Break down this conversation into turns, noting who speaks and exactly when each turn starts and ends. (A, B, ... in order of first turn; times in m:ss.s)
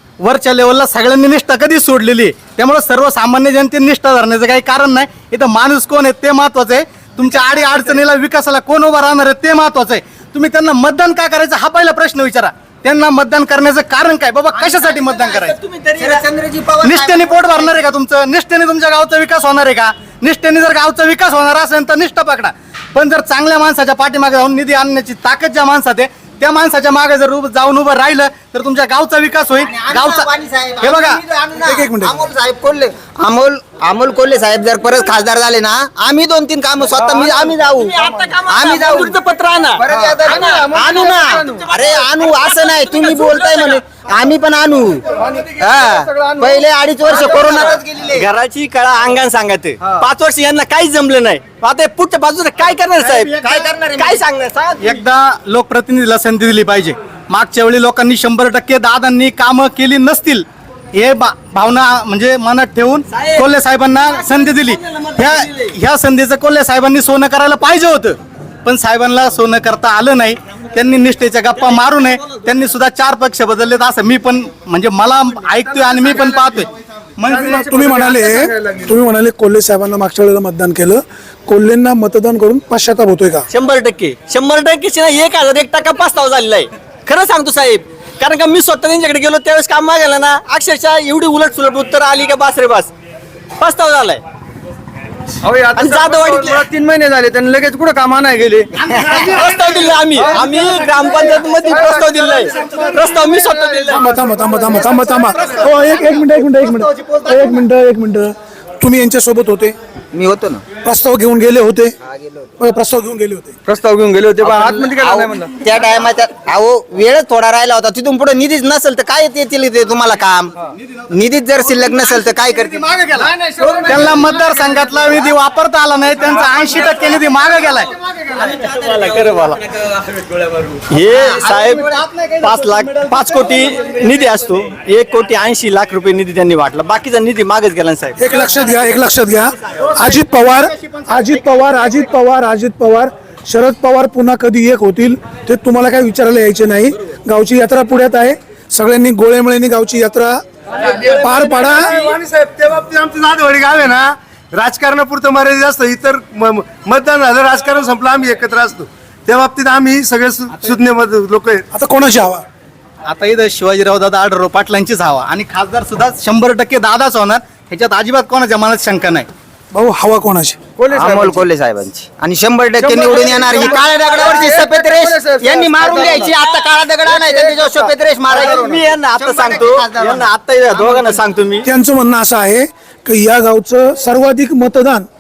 0:00.2-0:15.6 A
0:14.5-0:17.8 B
0:15.3-0:16.3 C
0:16.8-0:30.3 A
0:29.6-0:39.2 B
0:30.8-0:31.2 A
0:31.6-0:32.2 D
0:36.9-0:37.5 E
0:37.7-0:40.6 C
0:39.8-0:45.1 B
0:39.9-0:41.7 E
0:41.3-0:43.8 C
0:45.1-0:47.7 E
0:45.6-0:48.3 B
0:47.1-0:53.3 C
0:53.0-0:54.2 B
0:54.0-0:55.0 C
0:54.8-1:17.7 A
1:03.1-1:05.7 C
1:11.7-1:12.4 C
1:15.8-1:16.6 E
1:17.3-1:18.9 E
1:17.4-1:23.5 D
1:23.5-1:32.9 C
1:33.6-1:34.2 C
1:35.4-1:38.7 E
1:35.8-1:36.6 C
1:38.9-1:44.0 C
1:40.2-1:45.7 E
1:43.9-1:49.8 D
1:45.4-1:47.4 A
1:50.1-1:50.6 B
1:50.8-1:52.0 D
1:52.0-1:52.5 B
1:52.6-1:53.6 D
1:53.7-1:55.5 E
1:54.4-2:00.5 B
2:01.1-2:02.8 B
2:01.8-2:03.3 A
2:03.1-2:04.9 E
2:03.8-2:07.9 A
2:08.1-2:08.5 E
2:08.4-2:09.9 C
2:10.9-2:11.9 C
2:11.3-2:14.3 A
2:12.4-2:18.3 C
2:18.2-2:32.0 D
2:19.8-2:22.1 A
2:30.8-2:41.6 F
2:41.7-2:42.4 D
2:43.1-2:49.3 A
2:49.7-2:50.6 D
2:50.8-2:51.5 E
2:50.9-3:00.3 B
2:52.8-2:56.4 E
2:56.0-2:56.7 C
2:57.0-2:57.9 E
2:58.3-3:01.7 C
3:01.6-3:05.1 D